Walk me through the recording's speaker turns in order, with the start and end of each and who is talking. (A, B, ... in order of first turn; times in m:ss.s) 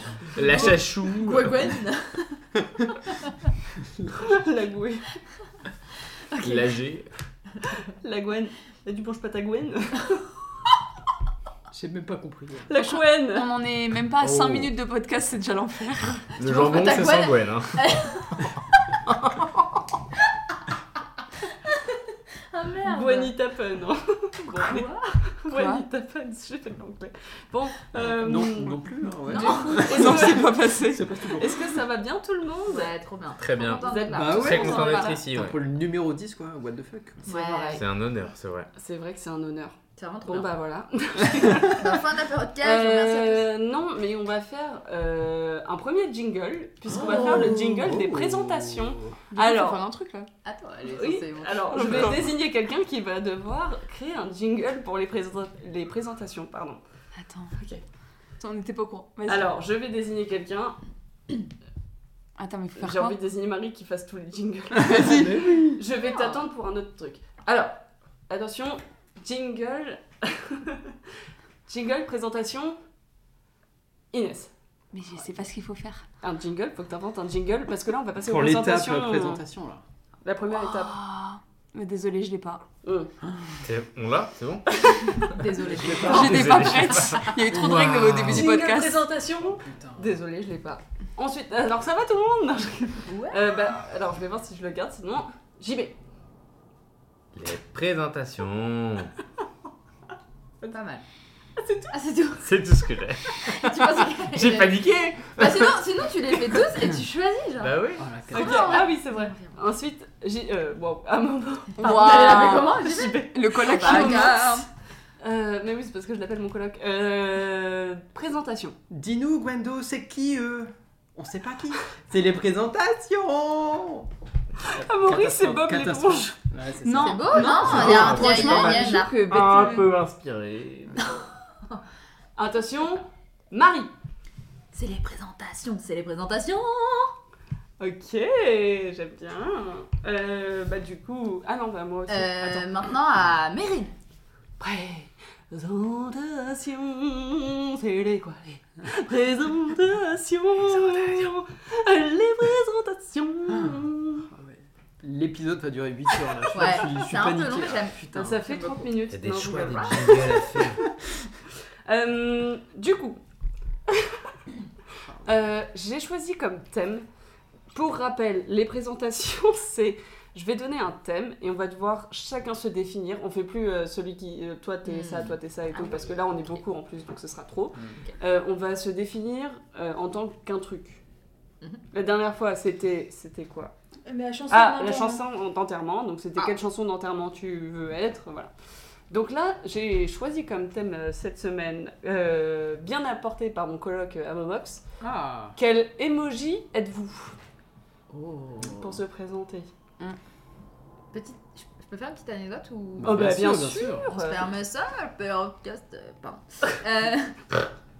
0:00.3-0:01.7 A
0:01.2-0:02.4 B
0:04.0-0:04.4 C
0:04.2-0:05.1 D
0:06.3-0:06.6 B
0:06.4-0:07.1 A
0:08.0-0:10.2 D
0:11.7-0:12.7 C
0:12.7-0:13.5 D
0:12.8-0:16.2 E
0:14.2-0:14.7 A
0:16.4-0:18.5 A
0:16.4-0:18.4 B
0:19.0-0:19.6 A
0:22.5-0:23.3 B
0:22.8-0:28.8 D
0:24.5-0:25.0 B
0:25.5-0:25.8 E
0:28.1-0:31.5 C
0:29.3-0:30.1 B
0:29.3-0:30.7 D
0:29.3-0:31.2 E
0:31.2-0:32.9 D
0:32.7-0:35.2 B
0:33.4-0:35.6 A
0:33.8-0:35.2 D
0:34.1-0:37.3 C
0:37.2-0:37.9 B
0:37.3-0:37.8 D
0:37.7-0:38.7 A
0:38.8-0:42.0 D
0:40.0-0:40.5 B
0:41.6-0:43.5 B
0:42.6-0:49.8 D
0:46.9-0:49.2 C
0:49.3-0:50.3 E
0:50.4-0:52.3 B
0:50.9-0:56.8 D
0:51.8-0:52.1 E
0:57.2-0:57.5 E
0:57.5-0:57.8 D
0:58.4-0:59.5 E
0:59.2-1:00.8 D
1:02.4-1:03.2 E
1:02.8-1:07.8 D
1:04.7-1:05.8 C
1:08.3-1:10.9 D
1:11.7-1:12.8 D
1:14.1-1:14.5 D
1:14.9-1:16.0 E
1:16.2-1:19.4 D
1:18.2-1:19.8 C
1:20.2-1:21.0 D
1:20.6-1:22.6 E
1:22.8-1:23.1 D
1:23.3-1:23.6 C
1:23.6-1:28.4 A
1:24.7-1:25.2 D
1:25.3-1:27.3 B
1:25.6-1:26.7 C
1:26.0-1:29.0 E
1:28.3-1:36.0 D
1:29.3-1:30.1 C
1:33.0-1:33.4 B
1:37.3-1:39.1 A
1:40.6-1:41.0 B
1:41.6-1:41.9 D
1:41.9-1:42.5 B
1:42.4-1:45.8 A
1:43.4-1:49.6 B
1:47.6-1:48.0 A
1:48.0-1:48.8 C
1:48.3-1:54.5 D
1:51.8-1:54.6 E
1:51.8-1:54.7 B
1:55.2-1:58.8 D
1:58.9-2:04.1 C
2:04.6-2:06.3 D
2:04.7-2:08.2 C
2:06.8-2:09.9 E
2:07.0-2:09.2 B
2:07.5-2:11.0 A
2:12.4-2:13.9 D
2:14.7-2:17.1 B
2:17.8-2:22.8 D
2:22.1-2:23.9 B
2:24.6-2:34.3 D
2:34.3-2:38.4 C
2:36.5-2:38.9 B
2:38.1-2:40.6 D
2:39.1-2:40.8 A
2:41.8-2:43.2 D
2:43.9-2:44.2 D
2:45.0-2:45.3 C
2:45.2-2:47.0 D
2:47.7-3:01.0 D
2:54.9-2:56.0 B
3:01.9-3:03.7 D
3:04.0-3:05.2 E
3:04.5-3:08.5 D
3:09.1-3:14.8 D
3:15.0-3:15.5 C
3:15.6-3:17.4 D
3:18.6-3:19.7 D
3:21.1-3:27.6 B
3:23.0-3:24.0 C
3:23.0-3:24.5 D
3:23.3-3:23.9 A